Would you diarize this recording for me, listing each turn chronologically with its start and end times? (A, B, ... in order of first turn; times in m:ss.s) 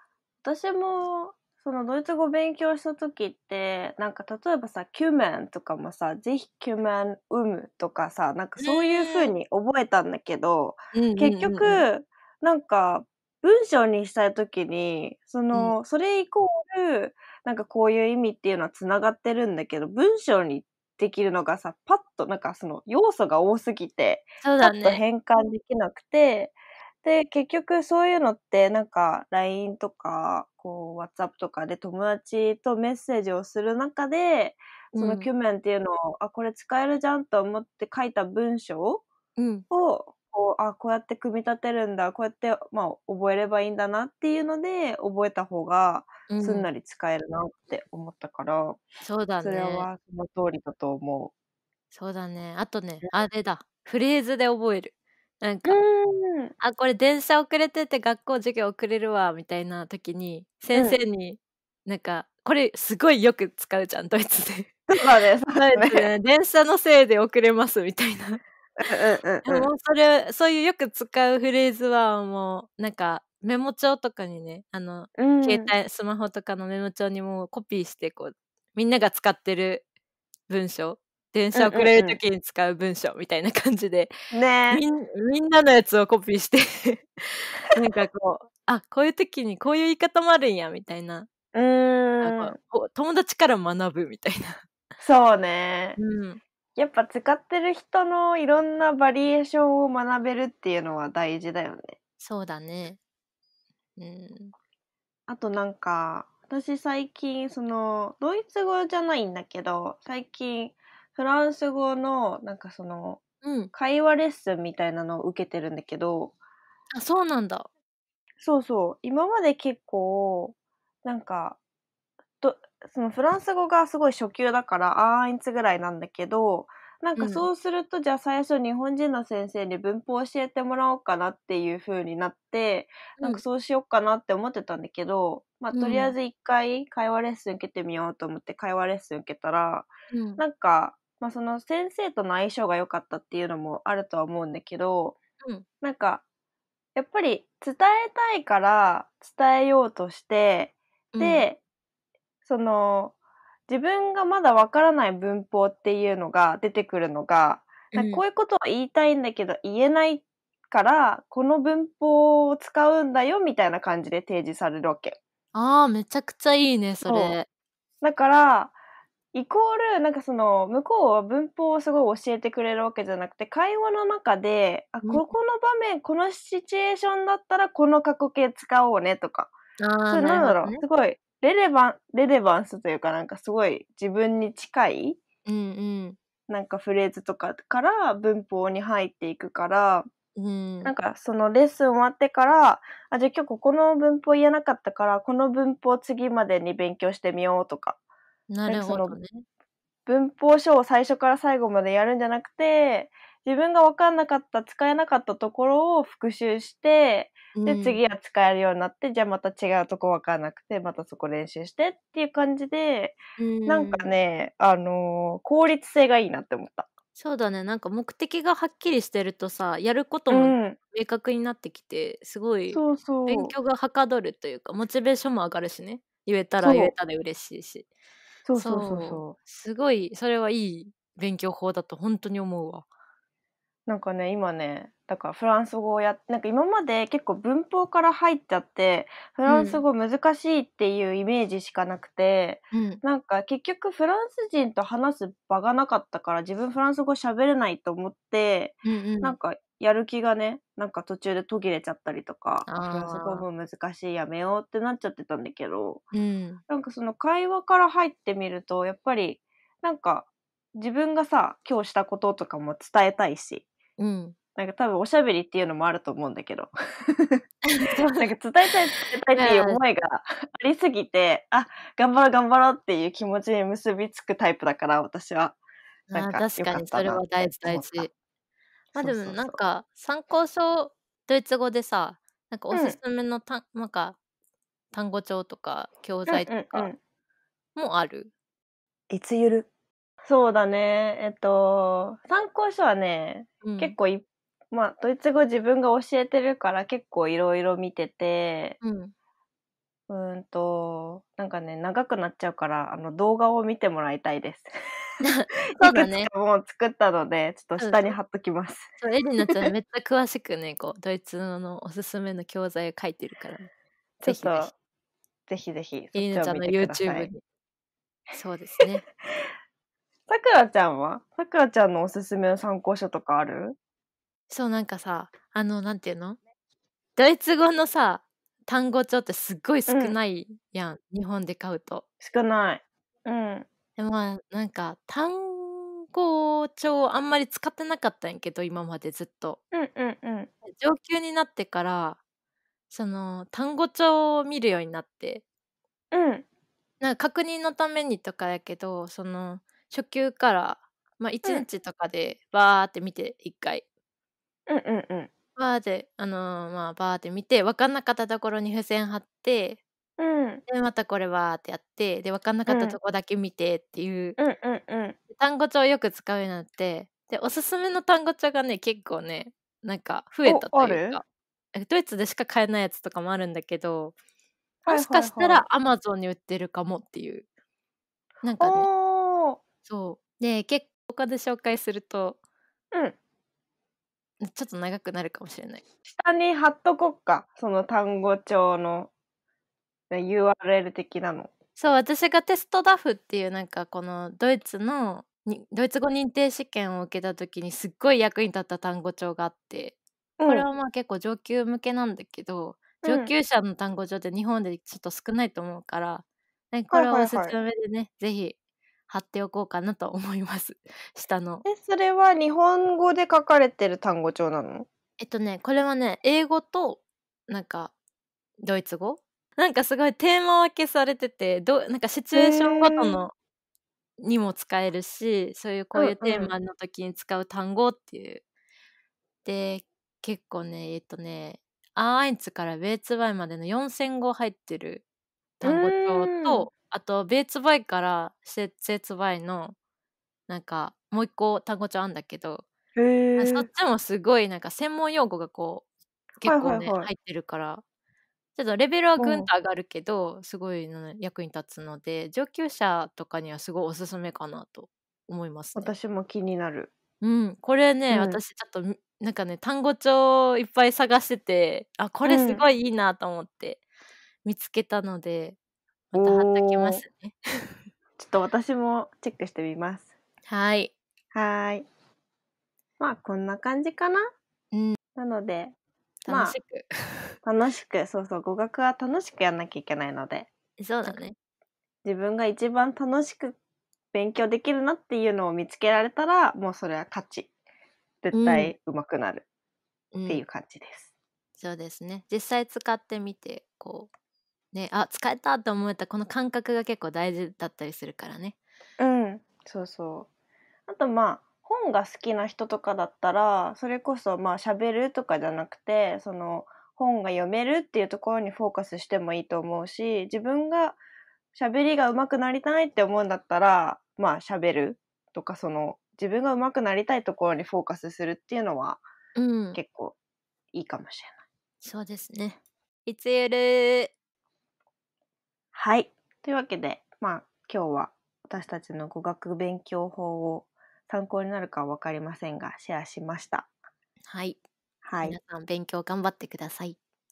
0:00.4-0:39.0 A
0:08.6-0:09.3 B
0:10.9-0:11.8 B
0:24.4-0:25.0 B
0:34.9-0:35.3 B
0:39.4-0:39.6 B
0:39.7-0:48.8 A
0:46.3-0:46.7 B
0:49.0-0:49.9 B
0:49.4-0:51.3 A
0:51.9-0:55.8 B
0:55.6-0:56.5 A
0:56.6-1:04.9 B
1:00.7-1:01.0 A
1:04.9-1:06.1 A
1:05.5-1:08.4 B
1:08.8-1:09.7 A
1:09.4-1:19.8 B
1:15.2-1:15.7 A
1:20.5-1:24.1 B
1:21.5-1:22.2 A
1:24.3-1:24.8 A
1:24.7-1:31.3 B
1:31.5-1:32.5 A
1:32.2-1:34.6 B
1:35.0-1:36.0 A
1:36.0-1:36.4 B
1:36.8-1:42.0 A
1:42.2-1:43.0 B
1:44.0-1:44.5 B
1:45.3-1:53.2 A
1:53.4-1:53.7 B
1:53.7-1:56.3 A
1:56.9-1:57.7 B
1:58.4-2:01.6 A
2:02.4-2:25.2 A
2:07.2-2:07.4 B
2:15.7-2:16.1 B
2:20.1-2:20.4 B
2:25.8-2:26.2 A
2:26.9-2:31.6 A
2:31.1-2:31.4 B
2:32.4-2:33.1 A
2:33.7-2:45.2 A
2:37.9-2:38.2 B
2:45.5-2:47.5 B
2:47.0-2:47.4 A
2:48.0-2:48.7 A
2:49.3-2:59.5 A
2:55.0-2:55.3 B
2:59.8-3:00.8 B
3:00.1-3:05.2 A
3:05.4-3:06.2 B
3:06.5-3:10.1 A
3:10.4-3:10.9 B
3:10.8-3:18.0 A
3:18.5-3:19.4 B
3:18.7-3:19.2 A
3:20.1-3:36.9 A
3:27.5-3:28.0 B
3:33.4-3:34.1 B
3:37.2-3:47.9 B
3:40.3-3:40.8 A
3:42.7-3:43.5 A
3:46.6-3:46.9 A
3:48.4-3:49.4 A
3:48.5-3:52.8 B
3:53.9-4:16.0 A
3:59.4-3:59.8 B
4:02.7-4:03.0 B
4:08.8-4:09.4 B
4:12.7-4:13.4 B
4:16.1-4:16.6 B
4:16.7-4:23.7 A
4:24.0-4:24.4 B
4:24.6-4:27.4 A
4:27.6-4:28.3 B
4:28.2-4:35.6 A
4:29.3-4:29.8 B
4:36.1-4:38.1 B
4:36.1-4:38.1 A
4:38.9-4:39.6 A
4:39.0-4:44.2 B
4:42.7-4:43.0 A
4:44.9-4:46.9 B
4:46.3-4:47.0 A
4:47.8-4:48.3 B
4:49.1-4:49.7 A
4:50.2-4:58.8 A
4:53.6-4:54.0 B
4:58.8-4:59.1 B
5:00.1-5:04.7 A
5:05.2-5:06.3 B
5:05.7-5:08.9 A
5:07.8-5:08.1 B
5:09.0-5:13.7 B
5:09.4-5:09.7 A
5:14.2-5:14.7 A
5:14.2-5:14.7 B
5:15.5-5:17.3 A
5:16.1-5:17.4 B
5:18.3-5:19.0 B
5:20.3-5:23.8 A
5:24.5-5:26.4 B
5:27.2-5:32.0 B
5:29.9-5:30.1 A
5:32.2-5:33.7 A
5:34.0-5:39.6 B
5:39.7-5:40.5 A
5:40.6-5:42.2 B
5:42.9-5:45.4 B
5:46.1-5:46.4 A
5:47.0-5:53.8 B
5:54.7-5:55.3 A
5:55.6-5:59.8 B
6:00.2-6:00.6 A
6:00.7-6:04.4 B
6:02.7-6:03.0 A
6:04.4-6:05.2 A
6:05.3-6:11.2 B
6:10.4-6:11.2 A
6:11.7-6:14.2 B
6:14.8-6:15.6 A
6:14.9-6:17.4 B
6:18.4-6:18.9 B
6:18.6-6:19.6 A
6:19.8-6:22.4 B
6:24.4-6:25.8 B
6:26.0-6:29.1 A
6:30.1-6:31.5 A
6:31.8-6:48.6 B
6:40.4-6:40.6 A
6:43.0-6:43.3 A
6:46.9-6:47.5 A
6:49.1-6:51.6 B
6:51.6-6:54.9 A
6:55.2-6:57.9 B
6:58.6-7:03.3 B
7:02.3-7:03.2 A
7:04.2-7:08.4 B
7:05.9-7:06.5 A
7:09.4-7:15.0 B
7:15.6-7:19.8 B
7:15.6-7:16.7 A
7:20.5-7:22.7 B
7:23.0-7:23.7 A
7:23.4-7:25.8 B
7:26.4-7:27.8 B
7:26.4-7:27.1 A
7:28.5-7:35.9 B
7:29.2-7:29.5 A
7:35.8-7:36.9 A
7:37.2-7:43.8 B
7:38.1-7:38.4 A
7:42.2-7:42.6 A
7:44.4-7:45.6 B
7:46.1-7:47.4 B
7:46.1-7:47.0 A
7:48.2-7:50.1 A
7:50.5-7:50.9 B
7:51.3-7:51.8 A
7:53.0-7:54.3 A
7:54.7-7:55.0 B
7:55.2-7:55.7 A
7:56.2-7:56.9 B
7:56.3-7:56.6 A
7:57.4-8:00.5 A
8:00.8-8:01.4 B
8:02.0-8:03.6 A
8:04.1-8:07.5 A
8:08.2-8:09.4 A
8:08.3-8:08.7 B
8:10.1-8:10.4 B
8:10.3-8:11.1 A
8:11.6-8:14.1 B
8:14.7-8:18.6 B
8:19.0-8:20.3 A
8:20.9-8:31.0 A
8:31.5-8:39.0 A
8:39.4-8:39.8 B
8:39.7-8:40.2 A
8:40.7-8:41.4 A
8:41.8-8:44.1 B
8:45.7-8:53.7 A
8:54.3-8:54.6 B
8:55.0-8:55.4 A
8:55.2-8:57.0 B